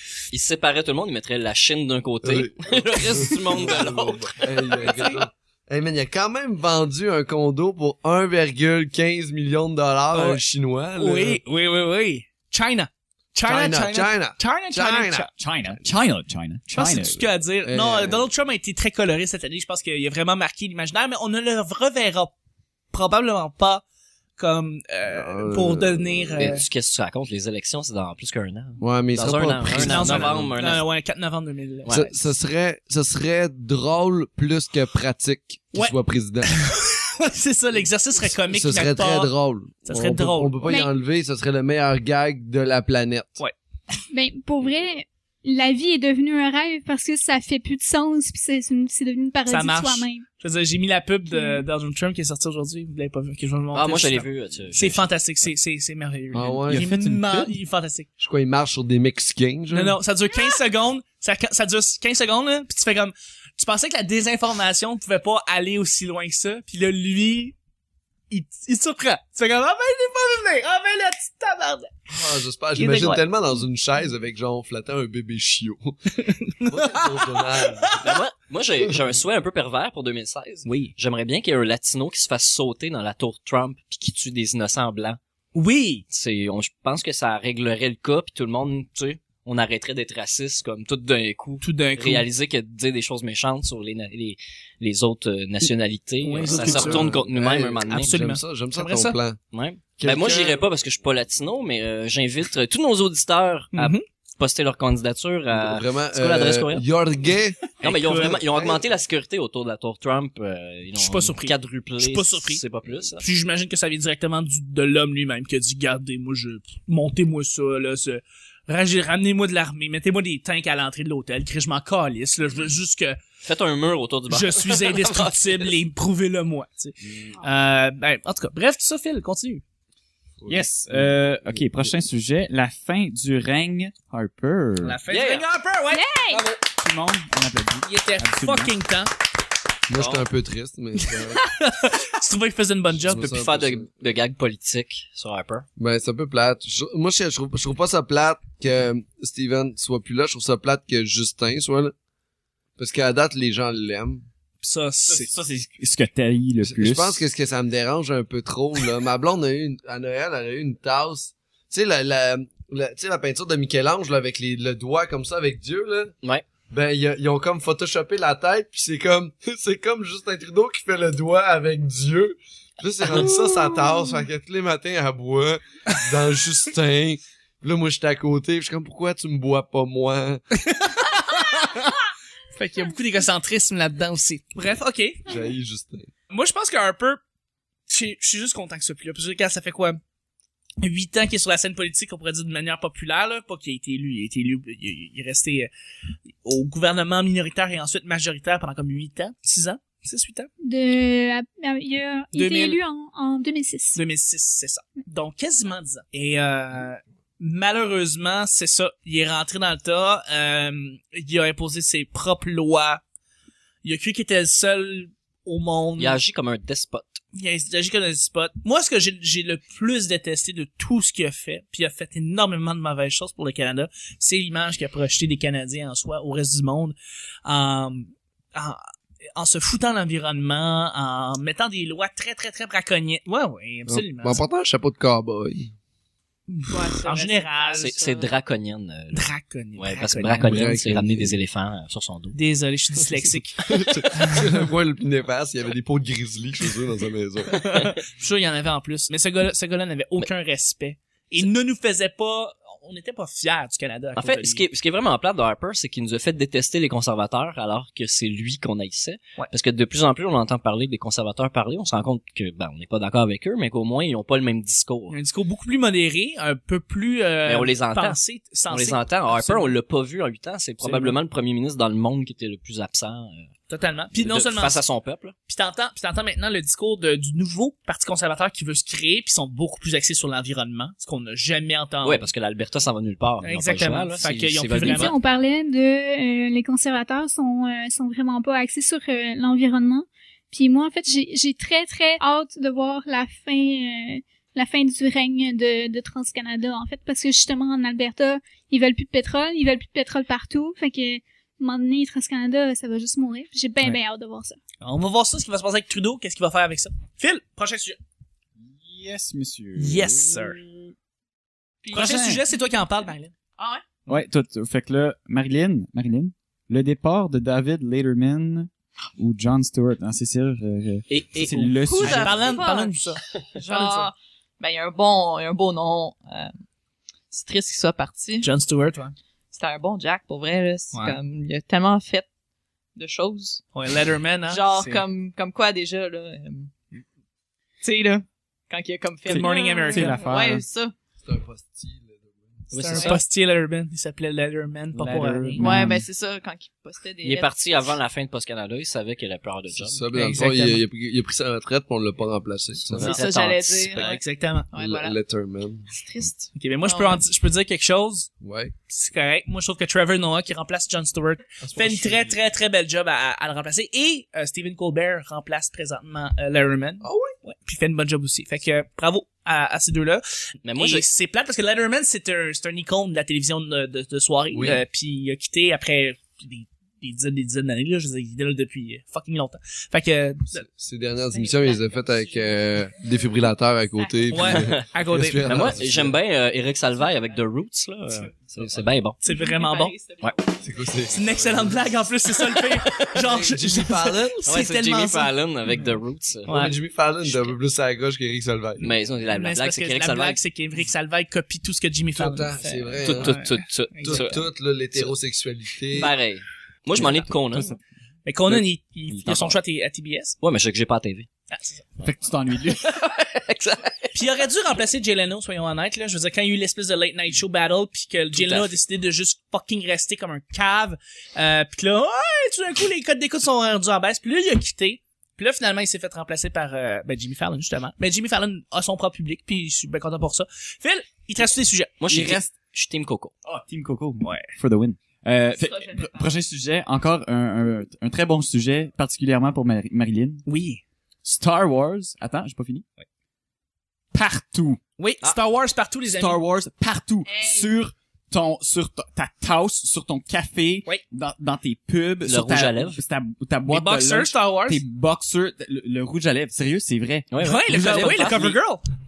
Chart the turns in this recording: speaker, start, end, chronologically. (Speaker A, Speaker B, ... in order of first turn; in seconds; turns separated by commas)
Speaker A: 0.3-4.4, Speaker B: 2.2-11.4, Speaker C: 10.1-10.4, Speaker C: 10.9-15.3, Speaker B: 13.4-15.3, Speaker D: 15.3-17.2, Speaker C: 16.7-22.3, Speaker B: 17.6-18.3, Speaker C: 22.9-23.8, Speaker C: 24.4-26.6, Speaker B: 25.1-26.6, Speaker A: 26.4-30.8, Speaker B: 28.8-30.5, Speaker C: 29.7-32.1, Speaker B: 31.9-36.5, Speaker C: 35.7-39.3, Speaker B: 38.5-43.4, Speaker C: 39.8-40.6, Speaker E: 40.6-40.9, Speaker E: 44.1-50.2, Speaker C: 49.5-58.1, Speaker E: 51.3-51.6, Speaker A: 53.7-55.1, Speaker B: 56.3-56.9, Speaker D: 56.7-57.5, Speaker B: 58.2-60.0, Speaker C: 59.7-67.5, Speaker C: 68.3-72.1, Speaker B: 72.1-78.0, Speaker C: 72.8-73.2, Speaker C: 76.3-78.2, Speaker A: 78.0-85.2, Speaker C: 80.7-80.9, Speaker C: 85.5-86.0, Speaker A: 86.1-98.1, Speaker C: 91.6-92.2, Speaker C: 96.2-97.1, Speaker B: 96.5-99.4, Speaker C: 97.9-99.2, Speaker A: 99.5-106.8, Speaker B: 100.0-100.6, Speaker C: 103.7-104.0, Speaker B: 105.5-107.6, Speaker C: 107.8-108.4, Speaker A: 107.8-113.2, Speaker B: 108.3-108.8, Speaker C: 111.0-112.6, Speaker C: 113.2-123.2, Speaker A: 123.4-125.7, Speaker C: 124.3-129.6, Speaker B: 130.4-131.9, Speaker D: 130.5-135.0, Speaker C: 134.8-136.0, Speaker A: 135.1-135.4, Speaker E: 135.9-136.4, Speaker D: 136.7-138.7, Speaker C: 137.8-139.1, Speaker B: 139.9-141.4, Speaker A: 139.9-140.2, Speaker C: 141.1-143.3, Speaker B: 143.0-143.9, Speaker A: 143.1-145.7, Speaker B: 145.8-151.9, Speaker B: 152.8-154.2, Speaker C: 154.6-155.3, Speaker D: 155.1-157.2, Speaker B: 156.6-166.1, Speaker B: 166.7-180.4, Speaker C: 180.6-182.0, Speaker C: 182.5-185.2, Speaker B: 185.2-186.1, Speaker C: 186.3-187.2, Speaker C: 187.9-190.0, Speaker C: 190.8-195.7, Speaker C: 196.4-200.5, Speaker E: 200.6-204.0, Speaker C: 202.3-202.8, Speaker C: 203.9-213.0, Speaker C: 213.8-216.2, Speaker A: 216.0-217.2, Speaker C: 217.3-228.8, Speaker C: 229.3-234.4, Speaker B: 233.9-235.7, Speaker C: 236.5-237.9, Speaker F: 236.7-238.3, Speaker A: 237.8-242.4, Speaker C: 239.1-240.6, Speaker B: 240.4-241.3, Speaker C: 242.3-243.6, Speaker B: 243.7-247.7, Speaker C: 247.5-254.6, Speaker A: 254.2-265.1, Speaker C: 265.1-269.7, Speaker A: 267.4-273.5, Speaker C: 270.8-271.2, Speaker C: 273.7-274.8, Speaker A: 274.1-275.3, Speaker C: 275.5-282.2, Speaker A: 282.0-285.1, Speaker C: 283.4-285.1, Speaker E: 284.8-304.6, Speaker C: 304.8-308.0, Speaker D: 308.6-310.9, Speaker C: 309.8-310.6, Speaker F: 311.8-312.4, Speaker D: 311.9-312.4, Speaker C: 311.9-313.3, Speaker F: 313.6-313.8, Speaker D: 314.1-322.5, Speaker A: 321.1-322.1, Speaker F: 321.8-326.5, Speaker C: 322.0-324.1, Speaker F: 327.3-328.5, Speaker C: 328.4-329.1, Speaker F: 329.5-332.3, Speaker C: 330.9-331.2, Speaker F: 332.9-333.6, Speaker C: 333.7-334.7, Speaker F: 334.5-336.7, Speaker F: 337.8-340.9, Speaker D: 339.2-340.6, Speaker C: 339.3-340.2, Speaker E: 339.4-339.9, Speaker B: 341.2-342.7, Speaker A: 342.7-343.2, Speaker C: 342.7-345.7, Speaker F: 342.9-343.2, Speaker D: 344.9-346.1, Speaker F: 345.6-347.6, Speaker A: 347.2-350.0, Speaker B: 349.7-353.2, Speaker C: 350.1-350.8, Speaker A: 352.8-354.2, Speaker F: 353.0-355.1, Speaker C: 353.9-354.7, Speaker B: 354.8-355.9, Speaker F: 355.9-357.2, Speaker C: 356.6-358.3, Speaker B: 358.4-358.7, Speaker C: 358.9-370.2, Speaker B: 361.6-362.4, Speaker B: 367.0-367.3, Speaker A: 370.6-371.1, Speaker C: 370.8-380.6, Speaker B: 374.5-374.8, Speaker B: 380.5-386.1, Speaker F: 381.3-383.2, Speaker F: 383.9-384.3, Speaker C: 384.3-385.7, Speaker A: 384.4-384.8, Speaker A: 385.4-389.2, Speaker C: 389.2-389.9, Speaker F: 389.2-390.6, Speaker B: 390.6-392.0, Speaker C: 391.1-395.3, Speaker B: 393.1-394.5, Speaker A: 394.4-396.5, Speaker C: 396.5-396.8, Speaker B: 396.5-398.9, Speaker A: 398.8-400.4, Speaker C: 399.3-404.3, Speaker B: 402.1-403.4, Speaker A: 403.0-404.4, Speaker B: 404.0-406.1, Speaker A: 405.9-407.7, Speaker D: 407.0-407.8, Speaker C: 408.2-410.4, Speaker A: 409.2-409.5, Speaker A: 410.4-411.3, Speaker C: 411.5-411.9, Speaker D: 412.0-412.9, Speaker A: 412.8-414.2, Speaker C: 414.1-432.0, Speaker A: 418.3-418.7, Speaker A: 432.0-433.3, Speaker D: 432.1-432.5, Speaker D: 433.4-440.4, Speaker C: 434.2-434.5, Speaker F: 435.5-436.4, Speaker C: 440.4-440.8, Speaker D: 441.2-442.8, Speaker D: 444.1-444.8, Speaker C: 445.0-446.4, Speaker D: 446.1-458.6, Speaker F: 447.2-447.8, Speaker A: 452.2-453.0, Speaker C: 453.7-454.8, Speaker A: 457.3-458.6, Speaker C: 457.4-458.8